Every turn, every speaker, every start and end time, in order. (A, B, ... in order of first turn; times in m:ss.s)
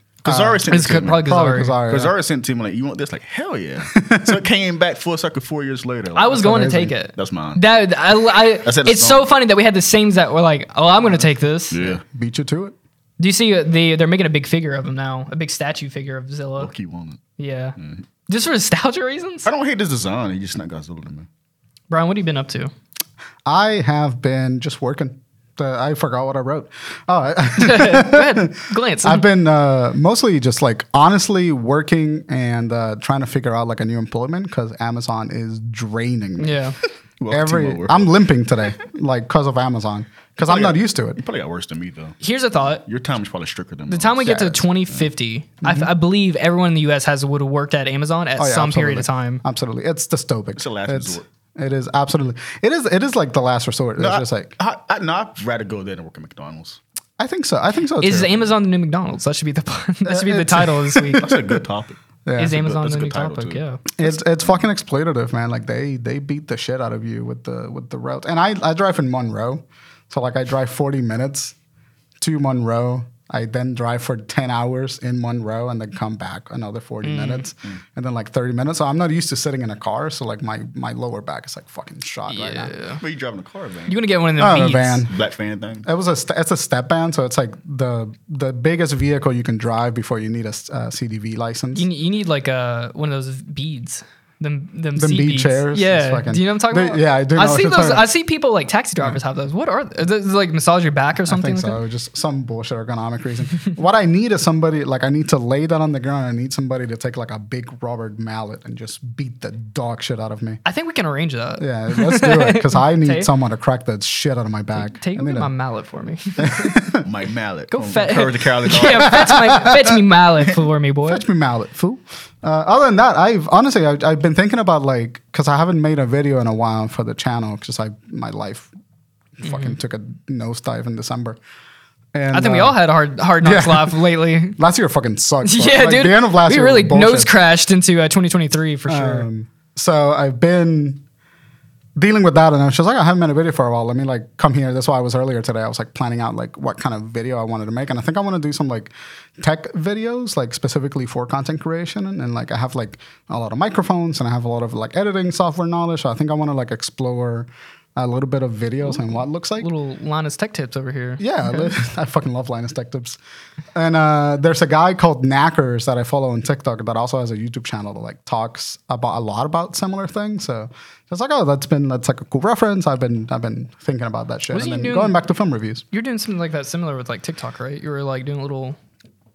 0:00.2-0:01.3 A
0:00.2-0:00.6 B
0:00.7-0:01.8 C
0:01.2-0:02.1 B
0:01.8-0:06.4 A
0:03.9-0:04.4 B
0:06.1-0:11.8 C
0:06.3-0:06.9 B
0:07.1-0:07.6 A
0:08.4-0:09.3 A
0:11.7-0:12.0 A
0:11.8-0:12.8 B
0:13.2-0:16.7 C
0:16.6-0:17.2 A
0:17.4-0:17.8 C
0:17.8-0:18.0 A
0:18.3-0:19.5 C
0:19.4-0:21.3 A
0:21.9-0:22.7 C
0:23.4-0:36.6 B
0:27.6-0:29.2 C
0:36.4-0:36.8 C
0:37.2-0:38.1 A
0:37.3-0:41.2 B
0:40.4-0:42.2 A
0:42.2-0:42.8 C
0:42.8-0:45.0 A
0:43.9-0:49.4 C
0:44.3-0:44.5 B
0:45.6-0:45.9 B
0:48.4-0:54.5 B
0:50.6-0:51.2 A
0:54.0-0:56.8 A
0:57.2-0:58.4 B
0:58.0-1:01.3 C
1:00.0-1:01.6 B
1:01.1-1:04.1 A
1:02.2-1:02.6 B
1:02.4-1:03.8 C
1:04.0-1:11.5 B
1:12.2-1:22.7 B
1:17.0-1:17.5 C
1:22.3-1:23.0 C
1:23.0-1:24.0 A
1:23.9-1:25.0 C
1:24.4-1:25.1 B
1:25.1-1:25.9 A
1:25.8-1:31.8 B
1:31.7-1:41.8 C
1:35.0-1:38.1 B
1:41.3-1:50.6 B
1:50.6-1:53.3 C
1:51.6-1:55.5 B
1:54.7-1:56.8 C
1:56.4-1:57.0 B
1:57.0-1:59.4 A
1:57.7-2:01.2 C
1:58.9-2:00.0 B
2:01.0-2:08.7 B
2:09.4-2:11.4 B
2:09.4-2:09.8 C
2:12.1-2:12.8 B
2:12.3-2:14.6 C
2:13.4-2:14.0 B
2:14.6-2:17.3 B
2:15.4-2:19.3 C
2:18.9-2:21.0 B
2:22.0-2:39.7 B
2:38.8-2:41.7 C
2:41.2-2:43.2 B
2:43.7-2:55.8 B
2:54.5-2:55.2 C
2:55.9-2:58.8 C